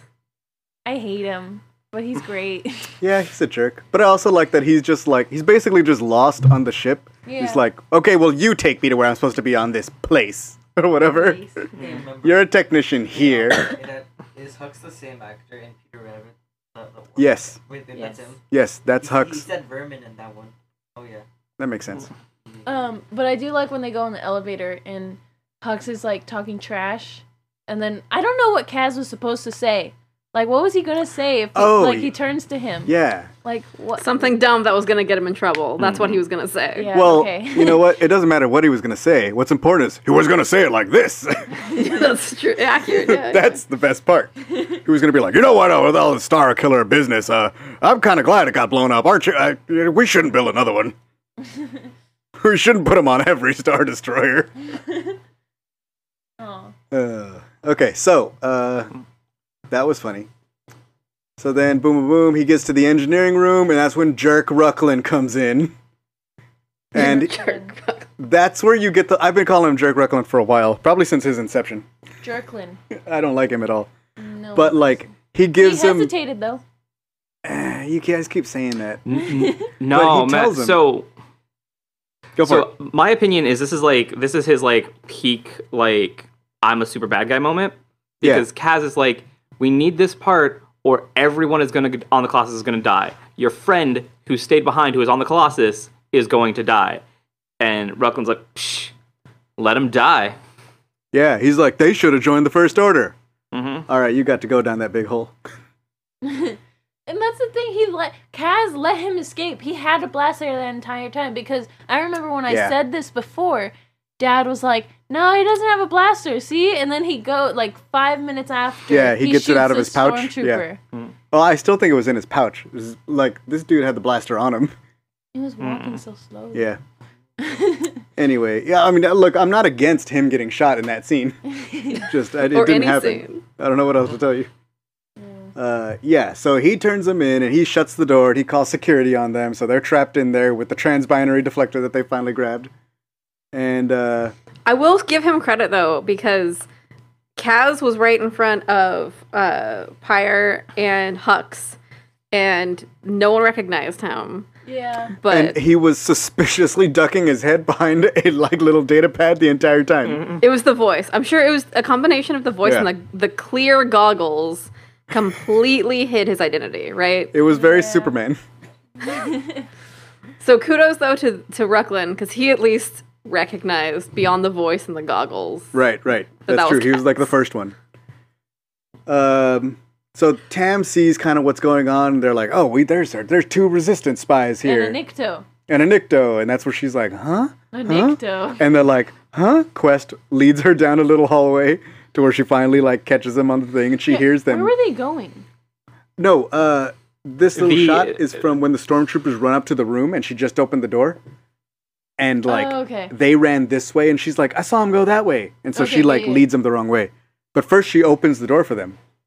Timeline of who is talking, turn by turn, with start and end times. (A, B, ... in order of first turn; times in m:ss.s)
0:00.9-0:02.9 A
0:03.0-0:11.7 B
0:07.3-0:07.6 A
0:11.0-0:11.6 A
0:11.8-0:18.4 C
0:12.2-0:13.8 B
0:17.2-0:17.6 B
0:17.9-0:18.3 A
0:18.5-0:19.5 B
0:19.0-0:21.2 C
0:21.6-0:22.1 B
0:22.6-0:34.4 A
0:31.6-0:32.2 B
0:32.8-0:33.3 B
0:34.0-0:37.0 D
0:35.8-0:36.2 E
0:36.8-0:37.8 A
0:36.9-0:41.9 B
0:41.7-0:43.6 D
0:43.0-0:51.0 B
0:52.4-0:54.5 B
0:56.4-0:56.7 A
0:56.9-0:58.9 B
0:59.7-1:00.3 B
1:01.4-1:05.8 B
1:06.9-1:07.4 B
1:07.0-1:07.7 A
1:07.0-1:08.1 D
1:08.2-1:11.9 B
1:12.2-1:12.8 A
1:12.9-1:13.9 B
1:14.2-1:15.0 A
1:14.6-1:16.1 B
1:15.6-1:16.6 A
1:17.4-1:19.0 B
1:19.1-1:21.1 E
1:19.2-1:19.6 A
1:19.9-1:20.8 B
1:22.4-1:22.7 B
1:22.4-1:37.0 E
1:37.6-1:38.9 E
1:39.6-1:40.4 E
1:41.1-1:43.2 B
1:43.5-1:43.9 E
1:43.9-1:45.4 B
1:46.2-2:00.8 A
1:52.5-1:52.8 B
1:58.9-2:00.6 B
2:01.3-2:04.7 B
2:05.3-2:06.7 A
2:05.6-2:06.0 E
2:06.5-2:06.8 B
2:07.4-2:08.0 A
2:08.2-2:11.4 B
2:11.6-2:12.1 A
2:11.9-2:14.5 B
2:12.5-2:13.4 D
2:15.2-2:15.5 A
2:15.6-2:22.7 B
2:23.5-2:24.3 B
2:24.7-2:26.6 D
2:27.4-2:31.8 D
2:32.3-2:34.5 D
2:34.7-2:35.2 A
2:35.2-2:35.6 D
2:35.2-2:40.2 B
2:40.0-2:40.4 E
2:40.4-2:47.4 D
2:42.6-2:42.9 B
2:47.3-2:48.4 B
2:47.5-2:48.1 A
2:49.0-2:49.6 A
2:50.4-2:55.8 D
2:55.7-2:57.8 B
2:56.4-2:57.1 D
2:59.1-3:05.0 B
3:04.6-3:05.5 A
3:05.7-3:14.7 B
3:07.7-3:08.7 A
3:14.1-3:15.4 A
3:16.2-3:21.2 B
3:17.5-3:18.4 E
3:22.2-3:29.0 B
3:22.5-3:23.1 A
3:25.7-3:26.5 A